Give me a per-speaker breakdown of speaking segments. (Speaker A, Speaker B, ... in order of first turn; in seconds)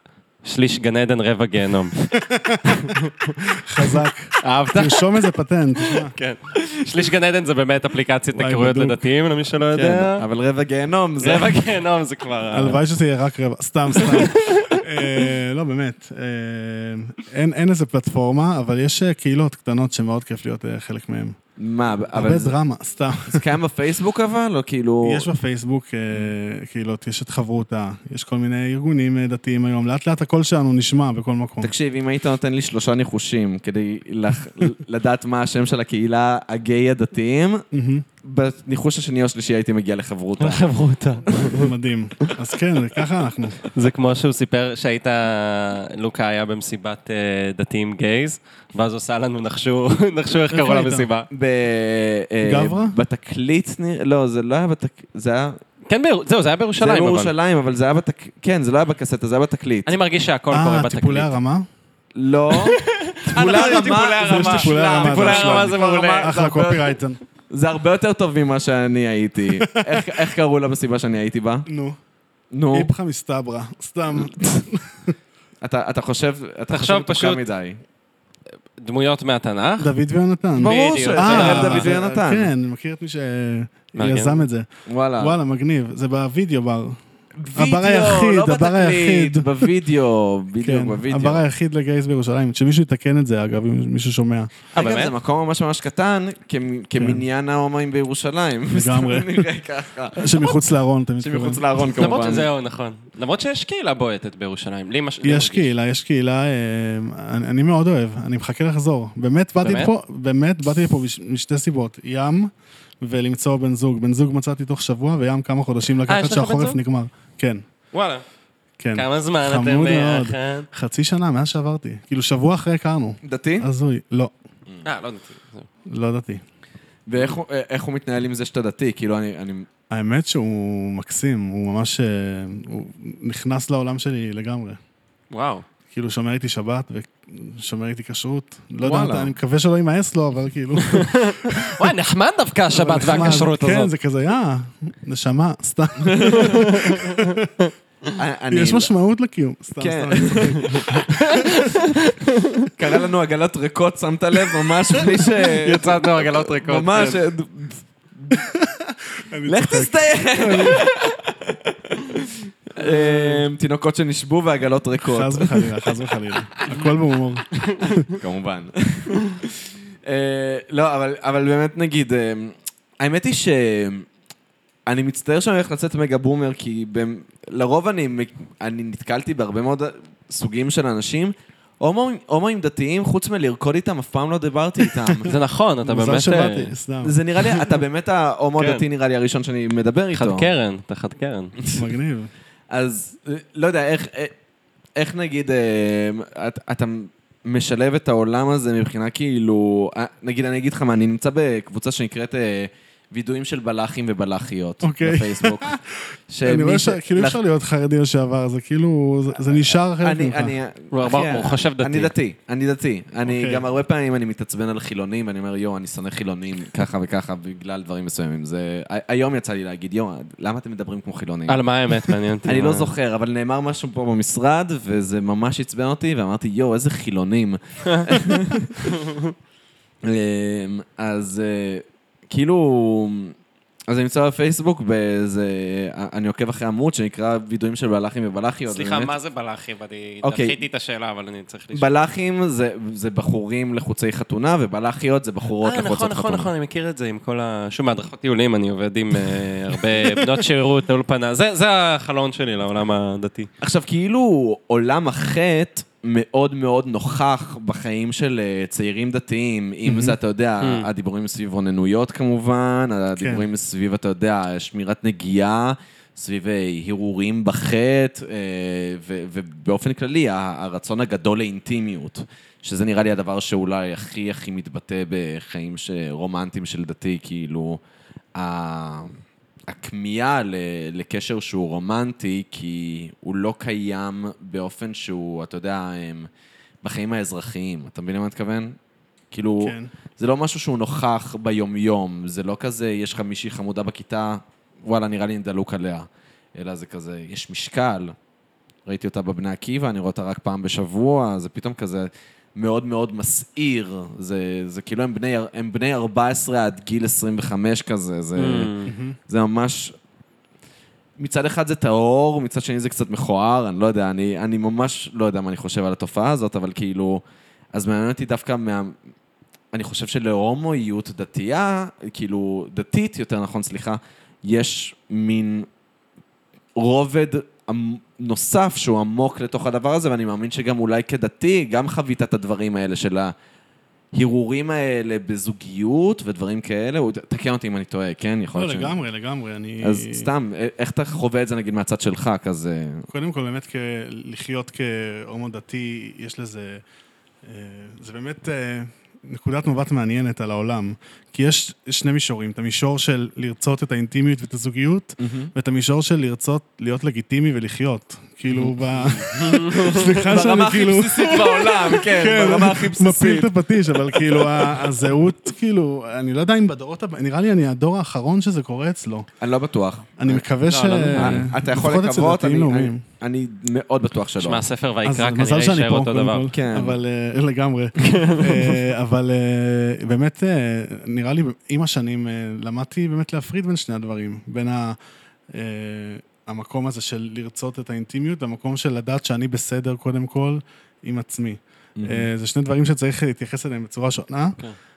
Speaker A: 0.4-2.0, 2.7-3.1, 4.4-5.1, 5.8-10.2, 11.2-12.8, 13.9-14.8, 40.4-41.7, 43.7-51.3, 55.9-57.3, 59.9-61.3, 62.6-66.3, 76.7-77.4, 78.8-79.9, 80.5-81.9, 84.0-84.4, 94.7-95.1, 102.0-105.7, 109.6-109.9, 116.1-116.8, 117.9-118.2, 118.9-120.7, 124.8-125.7, 135.3-135.6, 140.8-143.9, 146.4-147.3, 150.8-152.7, 155.6-157.2, 167.6-168.0, 185.2-186.7, 188.6-188.8, 190.1-191.5, 210.9-212.1, 221.5-222.9, 238.7-241.9, 245.6-253.5, 260.6-260.9, 308.4-308.9, 359.4-360.1, 370.6-371.5, 374.4-376.5, 378.0-378.8
Speaker B: 2.1-6.1, 8.3-9.0, 12.5-21.4, 22.1-23.4, 25.0-31.7, 37.7-38.0, 41.5-43.6, 50.5-51.1, 52.4-53.0, 60.5-61.7, 63.3-67.2, 69.6-70.1, 71.7-72.0, 72.7-75.1, 79.8-84.7, 85.2-87.0, 87.5-89.7, 90.6-94.5, 97.0-97.2, 98.7-99.5, 100.2-101.6, 105.2-117.6, 118.8-124.3, 125.9-126.4, 129.9-134.8, 135.9-141.9, 142.7-147.5, 148.5-151.7, 158.3-160.8, 162.8-163.4, 165.0-168.1, 185.8-187.2, 191.7-192.3, 204.8-210.5, 213.2-213.6, 259.9-260.1, 263.2-263.4, 289.6-289.9, 308.9-309.2, 338.5-340.3, 343.1-346.8, 347.4-369.3, 370.2-373.0, 375.0-385.0, 385.5-394.6
Speaker C: 9.7-11.6, 21.6-22.5, 23.3-25.3, 31.6-37.6, 38.2-40.6, 51.3-55.6, 56.8-59.9, 62.1-66.9, 67.5-71.7, 72.5-72.9, 75.6-77.8, 80.6-82.5, 84.9-85.3, 87.4-91.4, 94.7-100.5, 101.2-102.5, 123.2-123.7, 127.1-129.7, 138.8-139.3, 146.0-146.6, 148.1-148.9, 149.8-150.9, 152.7-158.4, 159.5-166.1, 168.2-174.1, 174.9-185.3, 187.0-190.5, 192.7-194.3, 195.0-207.4, 209.7-221.6, 222.5-228.9, 230.0-233.3, 233.9-239.1, 240.2-240.6, 241.7-246.5, 253.6-277.8, 278.4-286.3, 286.8-288.8, 289.3-298.1, 298.9-308.7, 309.3-309.9, 311.2-319.0, 319.7-325.7, 326.8-333.3, 334.1-339.0, 339.8-343.1, 355.2-355.5, 358.5-364.9, 369.4-370.4, 371.1-374.6, 376.5-377.0, 391.9-392.3